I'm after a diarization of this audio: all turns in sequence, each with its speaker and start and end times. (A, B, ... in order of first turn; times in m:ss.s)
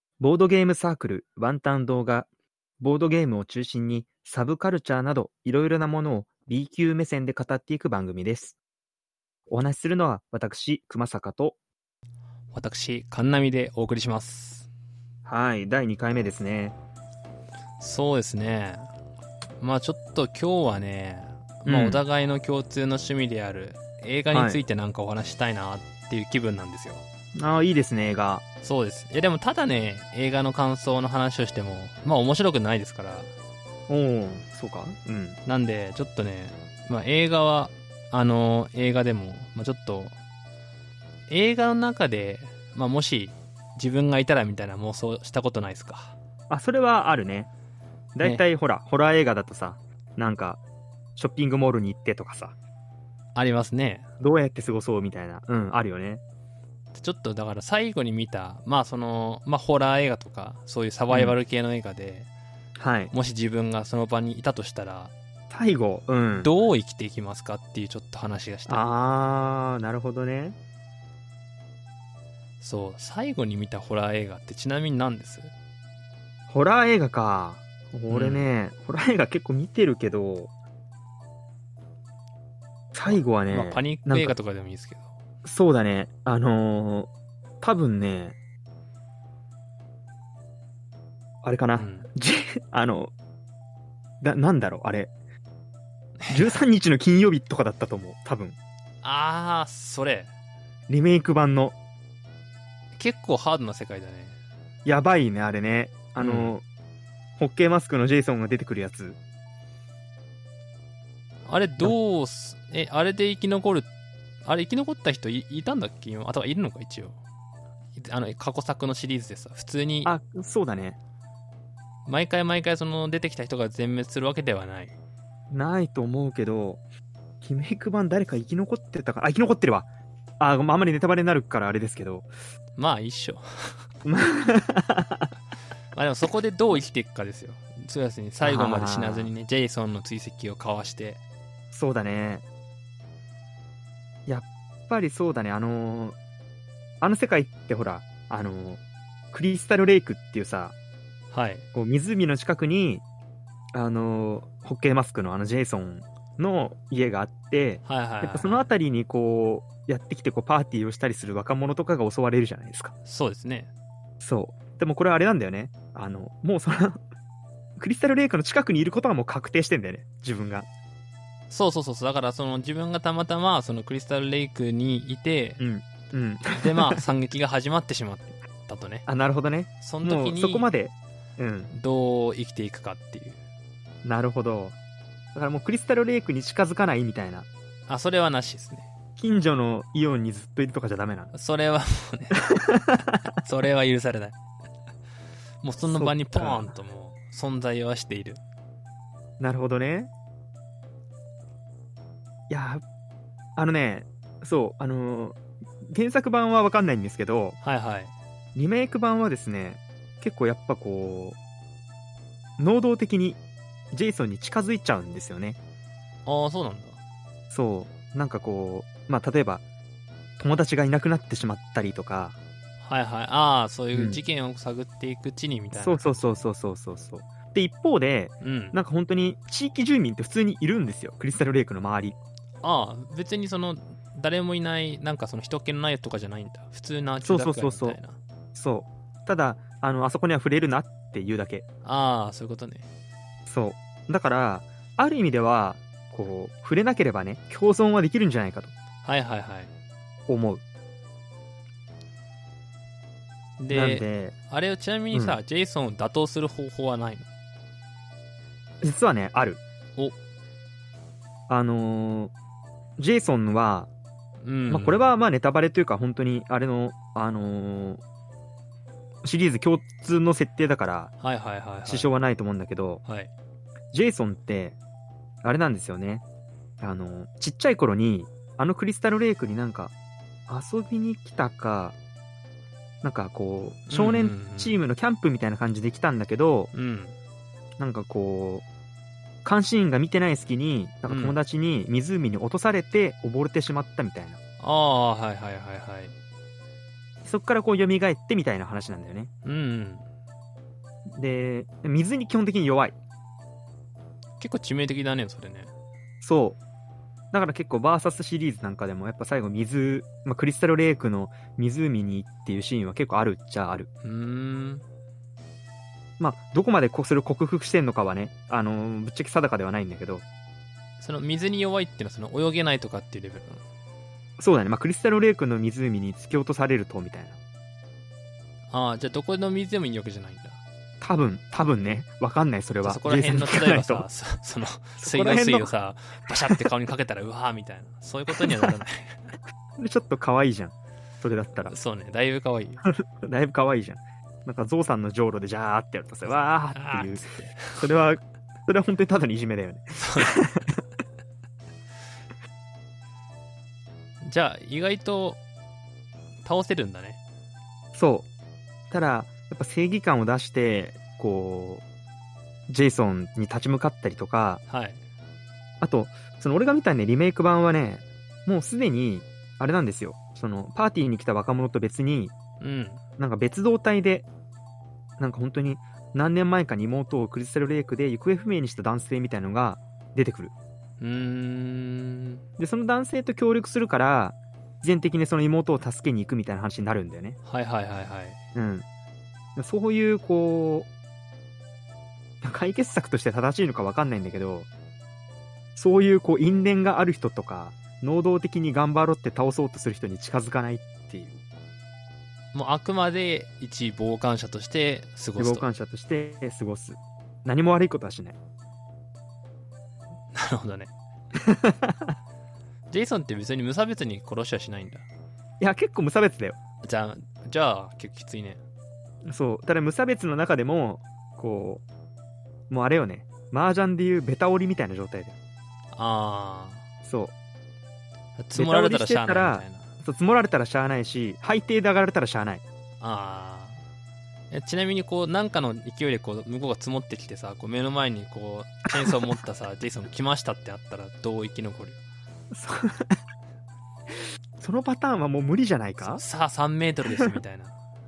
0:00.2-0:02.3 A
0:02.8-0:08.6 A
0:09.5-0:11.6 A
0:12.5-0:14.7 B
0:15.2-0:16.8 A
0:17.8-0:18.9 B
0:19.6-0:27.0 B
0:21.7-0:22.0 A
0:24.3-0:24.6 A
0:27.4-0:28.4 A
0:28.6-0:33.3 B
0:33.9-0:35.4 A
0:35.5-0:40.2 B
0:41.3-0:46.2 B
0:46.5-0:47.5 A
0:48.2-0:50.6 A
0:51.2-0:52.6 A
0:53.4-0:54.1 B
0:54.2-0:56.2 A
0:56.9-1:02.3 B
1:01.1-1:01.4 A
1:02.8-1:03.1 A
1:03.1-1:05.1 B
1:05.5-1:06.5 A
1:06.3-1:08.9 B
1:08.7-1:10.6 A
1:12.6-1:15.5 B
1:16.5-1:20.5 A
1:18.1-1:18.5 B
1:22.9-1:24.3 A
1:23.1-1:25.1 B
1:25.4-1:27.1 A
1:27.6-1:28.4 A
1:31.4-1:33.1 A
1:31.8-1:32.1 B
1:34.2-1:35.1 A
1:36.2-1:36.6 B
1:36.3-1:38.6 A
1:39.0-1:40.3 B
1:40.9-1:41.8 A
1:43.0-1:44.4 B
1:44.8-1:46.6 A
1:46.2-1:46.6 B
1:47.4-1:49.2 A
1:51.4-1:53.9 B
1:54.4-1:57.2 B
1:58.0-2:00.1 B
2:00.0-2:01.0 A
2:02.0-2:04.9 B
2:05.5-2:06.8 A
2:07.4-2:09.9 A
2:10.4-2:12.3 A
2:12.8-2:13.8 B
2:14.0-2:15.3 A
2:15.9-2:21.2 B
2:18.4-2:19.3 A
2:21.7-2:22.4 A
2:24.3-2:26.2 A
2:27.0-2:28.8 A
2:29.3-2:30.8 A
2:31.3-2:31.7 B
2:31.8-2:33.0 A
2:33.7-2:42.9 A
2:37.8-2:38.7 B
2:43.0-2:43.7 B
2:44.2-2:47.0 A
2:47.8-2:50.7 A
2:51.5-2:55.6 B
2:55.6-2:57.0 A
2:56.6-2:59.1 B
2:59.1-3:01.7 A
2:59.8-3:00.7 B
3:01.7-3:03.4 B
3:04.0-3:04.8 A
3:05.3-3:07.5 A
3:07.9-3:08.9 B
3:09.2-3:11.3 A
3:11.3-3:14.4 B
3:12.4-3:13.2 A
3:15.6-3:18.4 B
3:15.8-3:16.7 A
3:19.4-3:20.1 A
3:22.5-3:22.8 A
3:23.6-3:27.6 A
3:27.6-3:28.1 B
3:28.6-3:31.4 A
3:32.6-3:33.4 A
3:33.9-3:35.6 A
3:36.3-3:37.0 B
3:37.5-3:39.6 A
3:40.4-3:42.4 A
3:42.8-3:46.4 B
3:43.9-3:44.2 A
3:45.7-3:52.2 A
3:48.4-3:48.8 B
3:52.6-3:58.2 B
3:57.2-3:58.0 A
3:58.6-4:01.6 A
4:01.8-4:02.9 B
4:03.5-4:08.7 A
4:09.0-4:09.7 B
4:10.3-4:10.6 A
4:13.6-4:17.3 B
4:13.7-4:14.3 A
4:15.1-4:15.4 A
4:18.8-4:19.6 A
4:21.5-4:22.3 A
4:23.0-4:23.9 A
4:24.4-4:25.1 B
4:24.7-4:28.0 A
4:29.2-4:31.1 A
4:31.2-4:32.1 B
4:31.9-4:33.0 A
4:33.0-4:33.3 B
4:33.9-4:34.8 A
4:35.4-4:36.2 A
4:36.8-4:39.9 A
4:40.5-4:42.0 A
4:43.0-4:46.7 A
4:43.9-4:44.8 B
4:46.7-4:47.2 B
4:47.8-4:48.6 A
4:49.4-4:54.4 A
4:51.1-4:51.4 B
4:54.6-4:56.2 B
4:57.2-4:59.3 A
4:59.4-5:00.1 B
5:01.1-5:03.0 A
5:04.4-5:05.7 B
5:06.2-5:06.6 A
5:07.3-5:13.9 A
5:14.0-5:14.8 B
5:16.2-5:20.2 A
5:21.0-5:23.6 B
5:24.4-5:27.4 A
5:28.7-5:30.6 B
5:31.0-5:34.1 A
5:32.8-5:39.3 B
5:35.0-5:35.7 A
5:39.8-5:41.8 A
5:41.6-5:42.9 B
5:42.8-5:50.8 A
5:46.3-5:47.8 B
5:50.0-5:50.4 B
5:54.2-5:55.4 B
5:56.4-5:57.2 B
5:57.9-5:58.3 A
5:58.9-6:01.8 A
6:02.7-6:04.6 A
6:04.7-6:05.0 B
6:05.8-6:12.3 A
6:12.6-6:13.0 B
6:13.2-6:14.3 A
6:15.2-6:20.5 A
6:21.0-6:22.4 B
6:22.6-6:27.4 A
6:27.4-6:28.4 B
6:28.5-6:28.8 A
6:29.6-6:30.9 A
6:32.4-6:34.7 A
6:35.8-6:41.4 A
6:42.5-6:45.7 B
6:45.4-6:48.4 A
6:50.3-6:50.9 B
6:51.4-6:52.1 A
6:52.9-6:55.1 B
6:55.6-6:56.6 A
6:56.8-6:58.6 B
6:59.2-7:01.8 A
7:02.7-7:05.4 A
7:05.9-7:06.9 B
7:07.0-7:07.3 A
7:08.4-7:09.9 B
7:08.6-7:12.6 A
7:13.0-7:13.8 B
7:14.5-7:22.0 B
7:22.5-7:23.2 A
7:24.6-7:26.2 A
7:26.0-7:27.8 B